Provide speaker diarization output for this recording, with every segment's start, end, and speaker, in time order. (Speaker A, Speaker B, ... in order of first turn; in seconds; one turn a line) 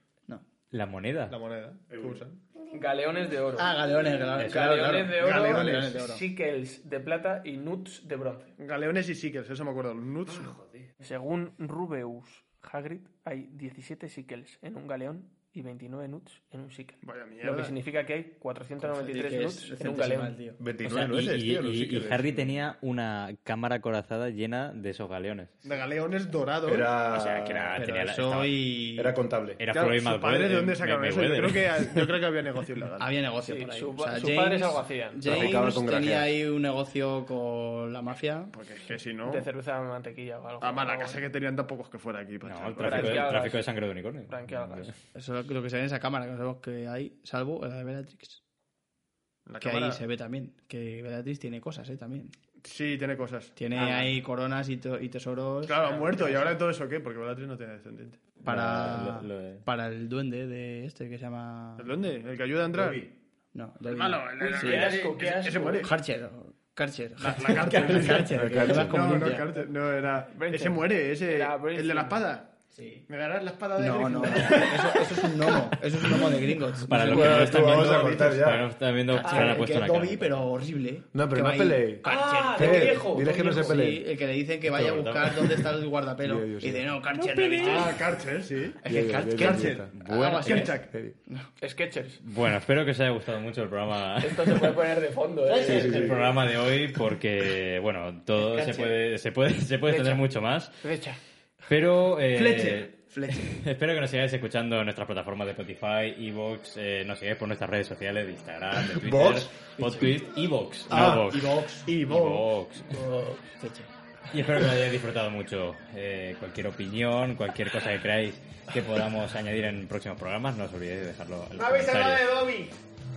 Speaker A: 0.7-1.4
Speaker B: 1.3-2.4
Speaker C: 1.9-2.2
Speaker D: 2.7-3.8
Speaker E: 3.6-6.2
Speaker A: 4.4-4.8
Speaker D: 4.4-8.6
Speaker B: 5.2-6.0
Speaker B: 8.6-10.6
Speaker C: 10.3-10.9
Speaker D: 11.0-20.4
Speaker B: 17.0-17.8
Speaker E: 18.8-20.6
Speaker C: 20.6-22.6
Speaker A: 20.9-25.6
Speaker B: 25.6-26.9
Speaker C: 26.6-27.8
Speaker A: 27.1-28.6
Speaker E: 27.8-29.2
Speaker C: 29.0-29.6
Speaker A: 29.6-32.1
Speaker B: 29.7-33.1
Speaker E: 33.0-38.6
Speaker D: 33.4-35.5
Speaker C: 35.2-36.3
Speaker B: 38.5-39.5
Speaker D: 39.2-41.2
Speaker B: 40.6-43.4
Speaker A: 42.4-45.0
Speaker D: 42.8-43.7
Speaker D: 44.3-45.0
Speaker E: 45.1-48.4
Speaker B: 49.5-50.0
Speaker E: 49.6-52.4
Speaker B: 52.6-54.1
Speaker E: 53.6-55.9
Speaker B: 55.6-58.3
Speaker E: 58.4-62.0
Speaker A: 58.5-59.6
Speaker B: 61.8-63.1
Speaker E: 63.5-65.1
Speaker B: 63.9-65.9
Speaker D: 64.4-65.9
Speaker E: 65.8-69.6
Speaker B: 67.2-72.6
Speaker A: 67.7-68.2
Speaker C: 68.3-69.2
Speaker D: 70.3-72.2
Speaker E: 72.7-73.1
Speaker B: 73.1-75.7
Speaker E: 73.8-78.2
Speaker A: 76.7-80.5
Speaker B: 77.0-78.5
Speaker C: 77.2-78.7
Speaker E: 79.1-88.0
Speaker D: 79.2-79.6
Speaker C: 81.1-84.1
Speaker D: 82.0-83.8
Speaker A: 84.7-85.7
Speaker C: 86.2-86.9
Speaker A: 87.2-87.9
Speaker B: 87.6-89.9
Speaker E: 88.8-91.5
Speaker C: 88.9-89.9
Speaker A: 89.9-90.7
Speaker B: 90.4-90.9
Speaker C: 90.9-91.2
Speaker D: 91.6-92.2
Speaker A: 92.2-94.8
Speaker D: 94.2-96.3
Speaker C: 95.6-96.3
Speaker A: 95.7-100.9
Speaker D: 98.4-99.0
Speaker D: 99.9-100.3
Speaker D: 100.8-101.2
Speaker A: 101.7-113.0
Speaker E: 102.3-103.6
Speaker C: 108.8-109.6
Speaker E: 109.8-110.3
Speaker B: 110.9-112.5
Speaker E: 110.9-111.9
Speaker E: 112.9-113.9
Speaker A: 114.3-122.4
Speaker C: 121.6-122.5